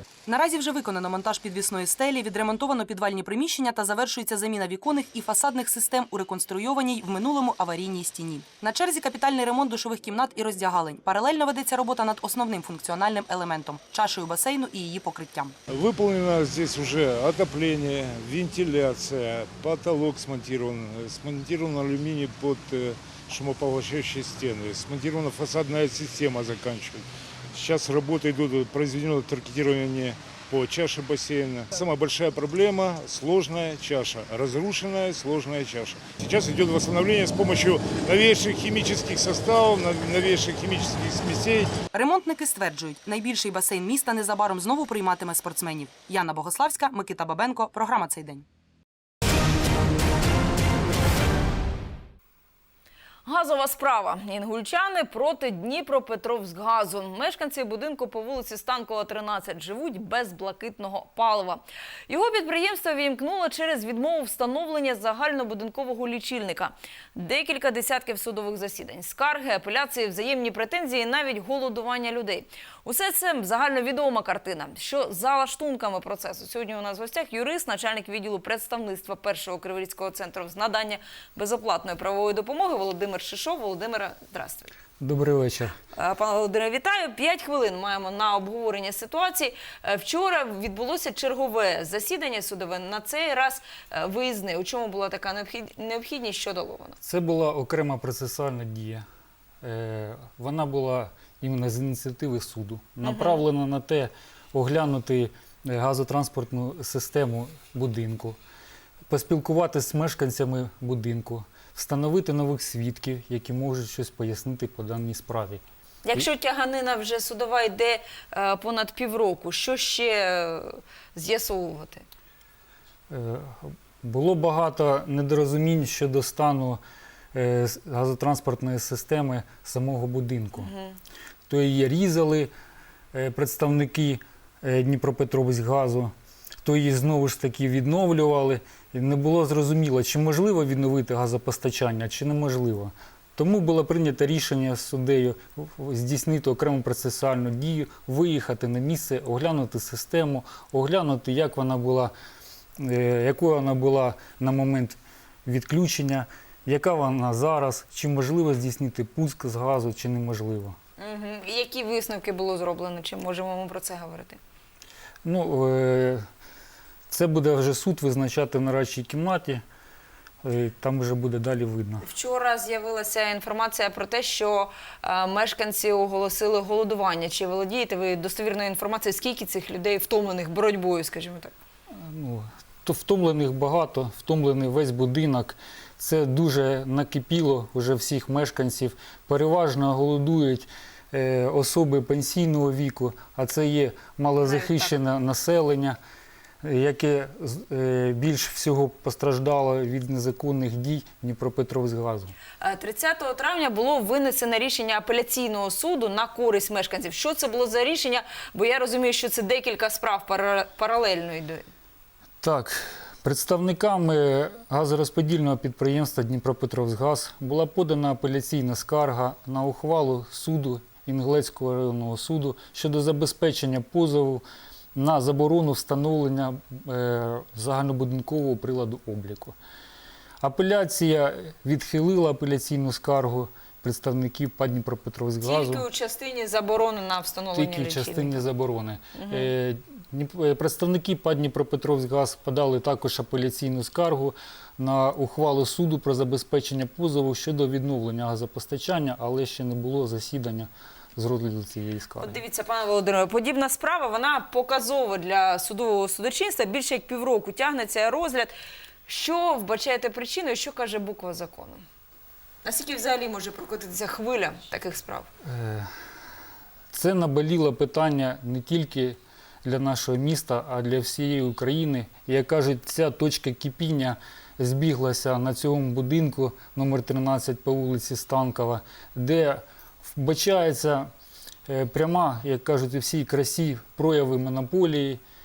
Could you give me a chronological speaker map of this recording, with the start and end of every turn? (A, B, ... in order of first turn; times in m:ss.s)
0:00.3-0:15.6 A
0:15.7-0:41.8 B
0:41.9-0:48.4 A
0:53.3-1:24.7 C
1:25.0-1:25.8 D
1:25.9-1:37.0 C
1:37.0-1:39.0 D
1:39.6-1:48.4 D
1:43.0-1:43.4 C
1:49.1-1:55.6 D
1:56.0-2:02.1 C
2:03.1-2:06.8 D
2:07.3-2:10.7 D
2:10.6-2:11.0 C
2:11.5-2:12.5 D
2:13.1-2:16.1 D
2:16.6-2:32.1 D
2:32.8-2:40.8 D
2:41.0-2:44.4 C
2:45.2-2:46.3 D
2:47.1-2:49.6 D
2:50.4-2:52.0 D
2:52.0-3:01.5 C
3:01.9-3:16.0 D
3:14.4-3:14.9 C
3:16.6-3:22.3 D
3:22.6-3:31.7 C
3:32.4-3:44.4 D
3:45.0-3:49.6 D
3:50.4-3:55.9 D
3:55.4-3:58.4 C
3:57.5-4:12.4 D
3:59.1-3:59.5 C
4:12.2-4:18.5 C
4:19.1-4:21.8 C
4:22.6-4:25.3 C
4:25.4-4:25.9 D
4:26.9-4:41.1 D
4:41.7-4:45.2 D